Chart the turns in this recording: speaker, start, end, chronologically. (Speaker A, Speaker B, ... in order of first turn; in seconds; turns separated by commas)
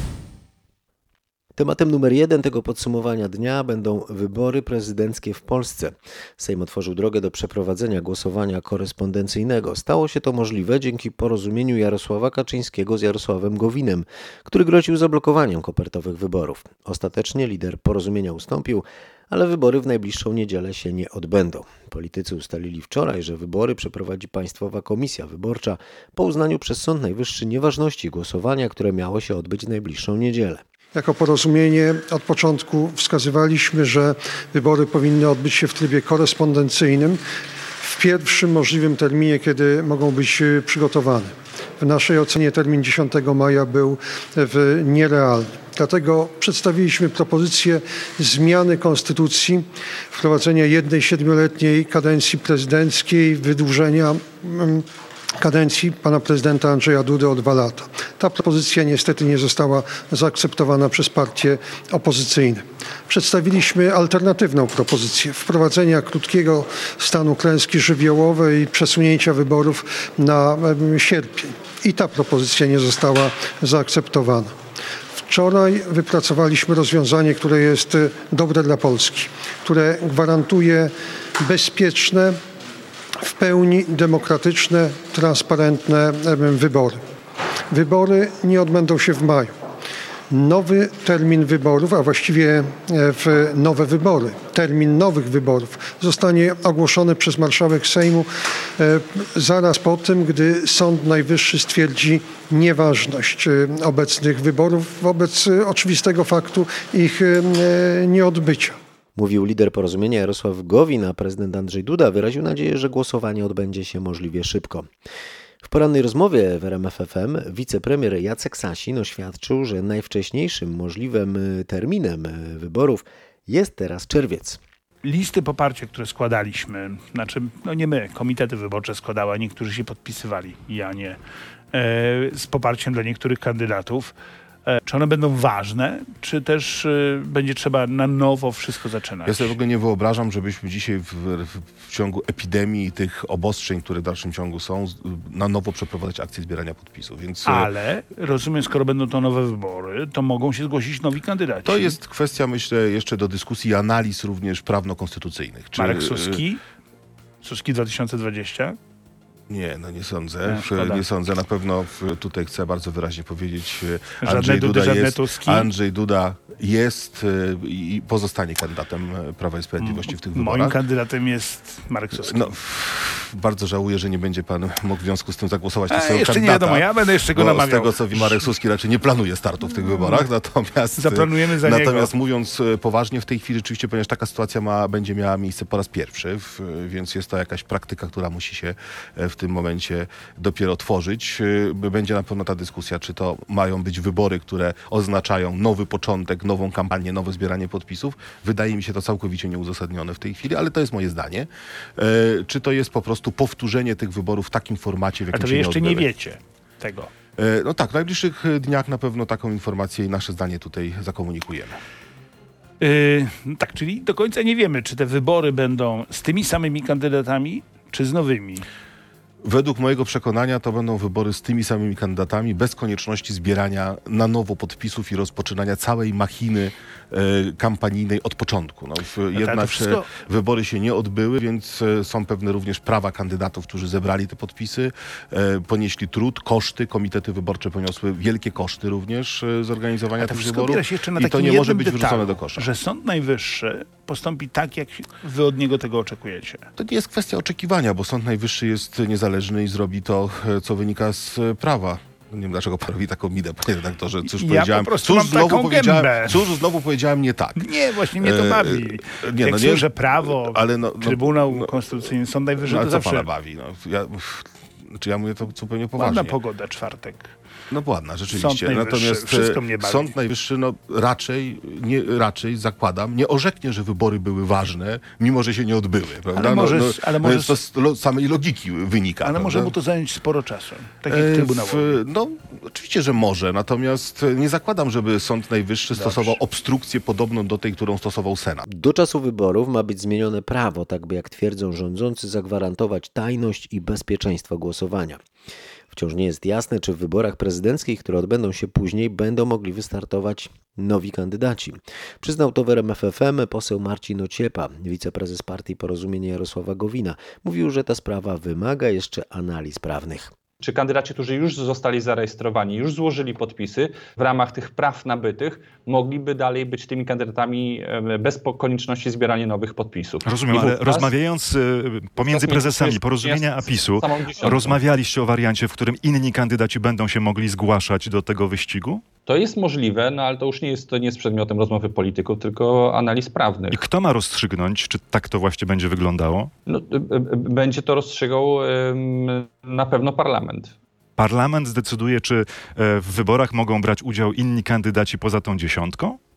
Speaker A: 1.6-30.6, Speaker B: 30.9-37.2, Speaker B: 37.8-54.9, Speaker B: 55.4-74.6, Speaker B: 75.2-82.4, Speaker B: 83.2-87.0, Speaker B: 87.7-89.5, Speaker B: 90.3-108.8, Speaker A: 109.2-114.9, Speaker A: 115.6-124.6, Speaker C: 125.0-131.2, Speaker C: 131.7-134.1, Speaker C: 134.7-139.5, Speaker D: 139.2-147.7, Speaker C: 147.4-152.0, Speaker D: 151.7-156.4, Speaker C: 155.8-156.6, Speaker C: 157.4-158.8, Speaker D: 159.5-170.8, Speaker C: 160.5-161.0, Speaker C: 164.2-165.7, Speaker C: 169.8-172.4, Speaker D: 172.2-206.1, Speaker C: 175.9-178.4, Speaker C: 179.9-180.2, Speaker C: 181.0-182.1, Speaker C: 205.3-207.1, Speaker D: 207.4-211.8, Speaker C: 212.8-218.7, Speaker D: 219.4-242.7, Speaker C: 229.3-230.1, Speaker C: 240.2-246.7, Speaker D: 246.8-261.8, Speaker C: 254.4-256.4, Speaker C: 257.6-263.3, Speaker D: 262.6-266.4, Speaker C: 266.0-267.3, Speaker D: 267.7-279.8, Speaker C: 268.3-270.1, Speaker C: 276.3-277.6, Speaker C: 279.2-282.0, Speaker D: 281.1-288.6, Speaker C: 285.9-286.4, Speaker A: 288.7-295.2, Speaker A: 295.9-310.3, Speaker E: 310.6-321.1, Speaker F: 320.2-329.1, Speaker E: 322.2-324.8, Speaker E: 329.3-333.8, Speaker F: 333.7-336.5, Speaker E: 336.7-340.7, Speaker F: 341.2-346.2